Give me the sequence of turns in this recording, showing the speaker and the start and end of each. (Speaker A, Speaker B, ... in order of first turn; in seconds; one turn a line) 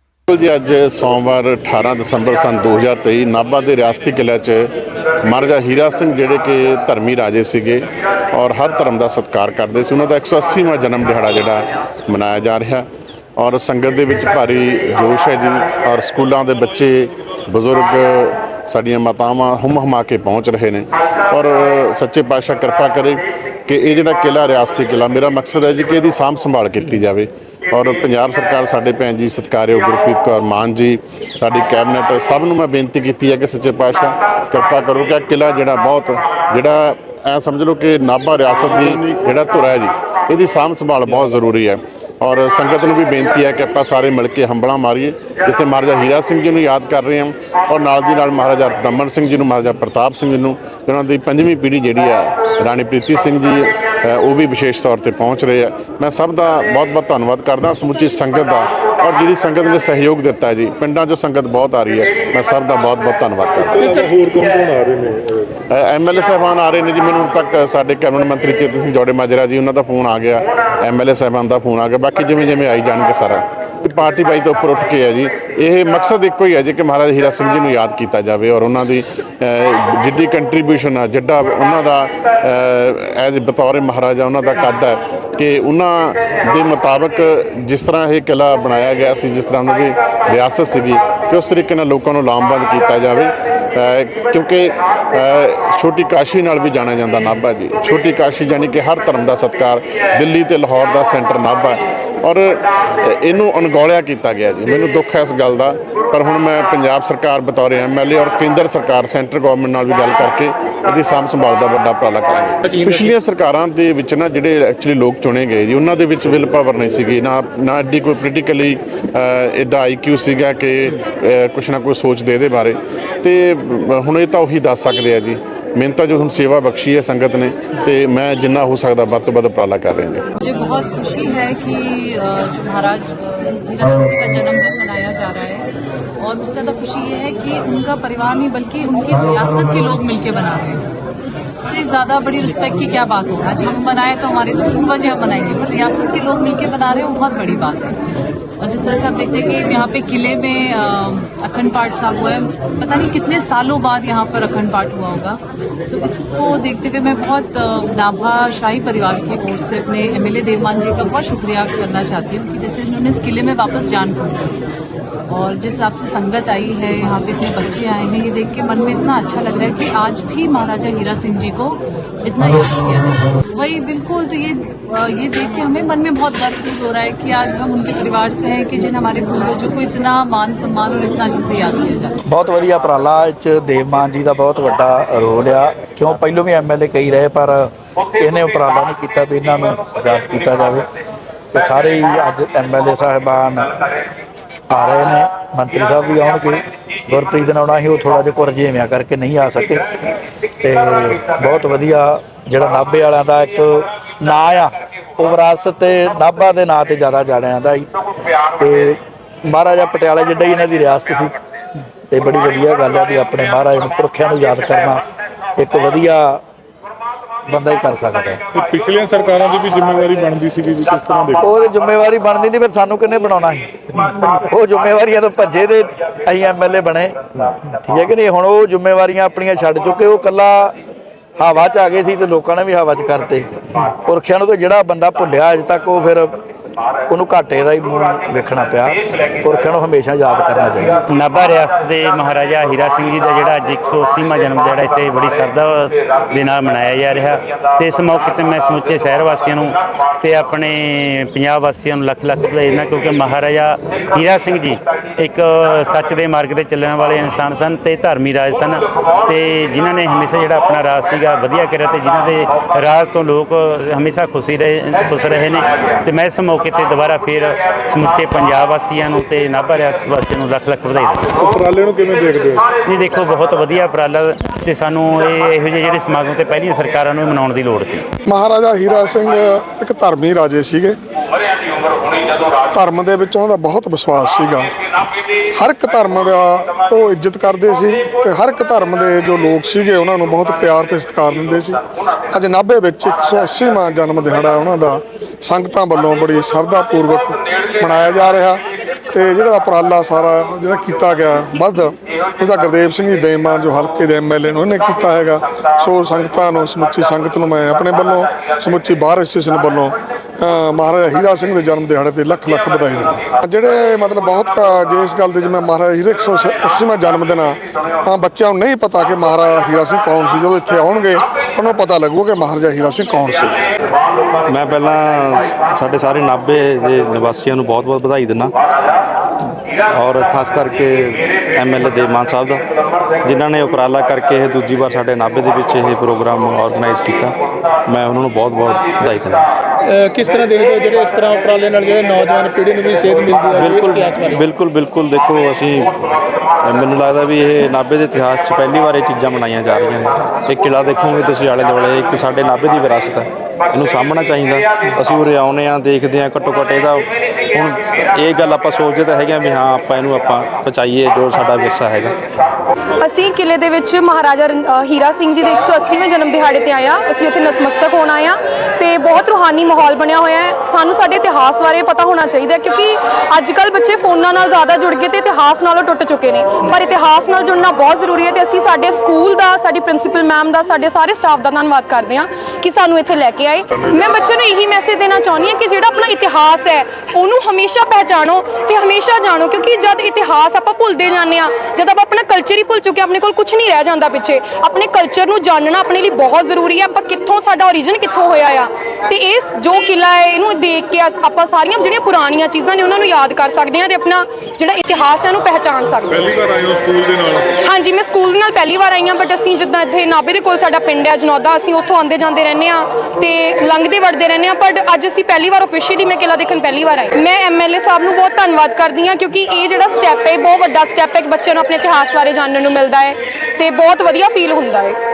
Speaker A: 0.3-4.7
Speaker A: 5.2-64.0
Speaker B: 38.7-39.0
Speaker B: 63.8-65.3
Speaker C: 64.1-64.9
Speaker A: 65.7-130.2
Speaker D: 130.4-135.7
Speaker D: 136.2-148.0
Speaker D: 148.6-164.6
Speaker D: 165.3-182.2
Speaker E: 182.3-190.9
Speaker E: 191.5-193.7
Speaker E: 194.7-199.9
Speaker E: 200.6-207.9
Speaker E: 208.6-211.3
Speaker E: 212.1-215.0
Speaker E: 215.6-216.4
Speaker E: 217.4-218.4
Speaker B: 218.6-221.4
Speaker C: 218.9-219.5
Speaker C: 220.2-220.5
Speaker E: 221.4-230.8
Speaker E: 231.4-236.4
Speaker E: 237.1-241.0
Speaker F: 241.1-271.5
Speaker B: 271.5-272.6
Speaker F: 272.8-278.1
Speaker G: 278.2-281.0
Speaker G: 282.7-284.7
Speaker G: 285.5-323.6
Speaker C: 324.4-328.5
Speaker C: 329.9-332.6
Speaker C: 333.2-339.5
Speaker H: 339.9-344.4
Speaker C: 343.5-346.0
Speaker C: 346.6-362.2
Speaker I: 363.0-381.2
Speaker I: 381.8-383.6
Speaker I: 384.4-406.0
Speaker B: 406.1-407.5
Speaker I: 407.7-419.5
Speaker I: 420.8-421.6
Speaker I: 423.6-424.7